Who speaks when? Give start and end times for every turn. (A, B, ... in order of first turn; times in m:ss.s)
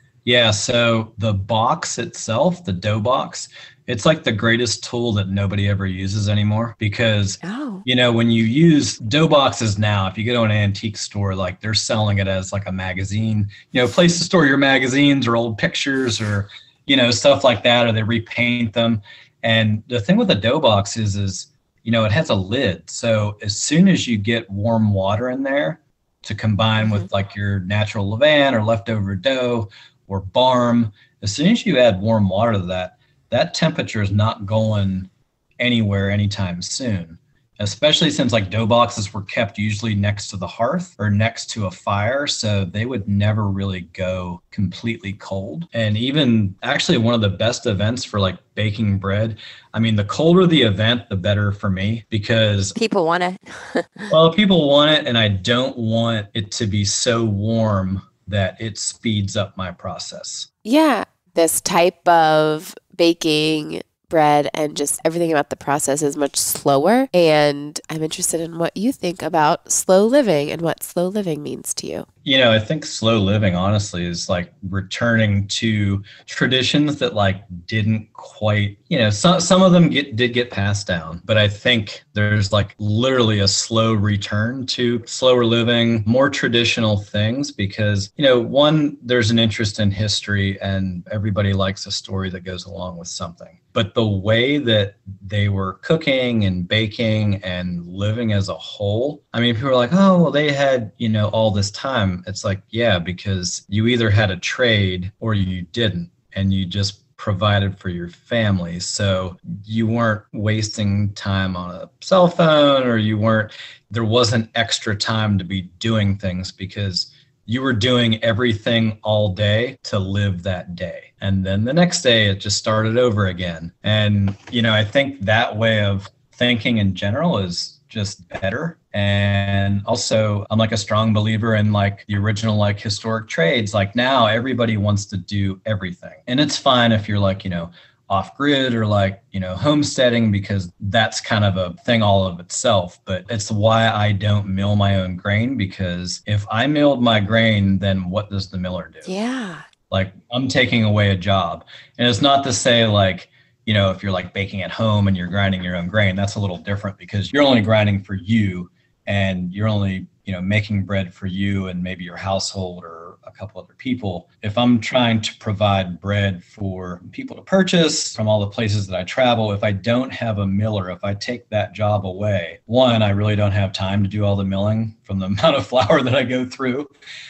0:00.2-0:52.8 A
0:07.4-0:07.8 B
0:52.8-0:54.1 B
0:54.1-1:00.5 A
1:00.6-1:12.1 C
1:12.2-2:29.1 A
2:29.0-2:29.7 B
2:29.9-2:56.9 A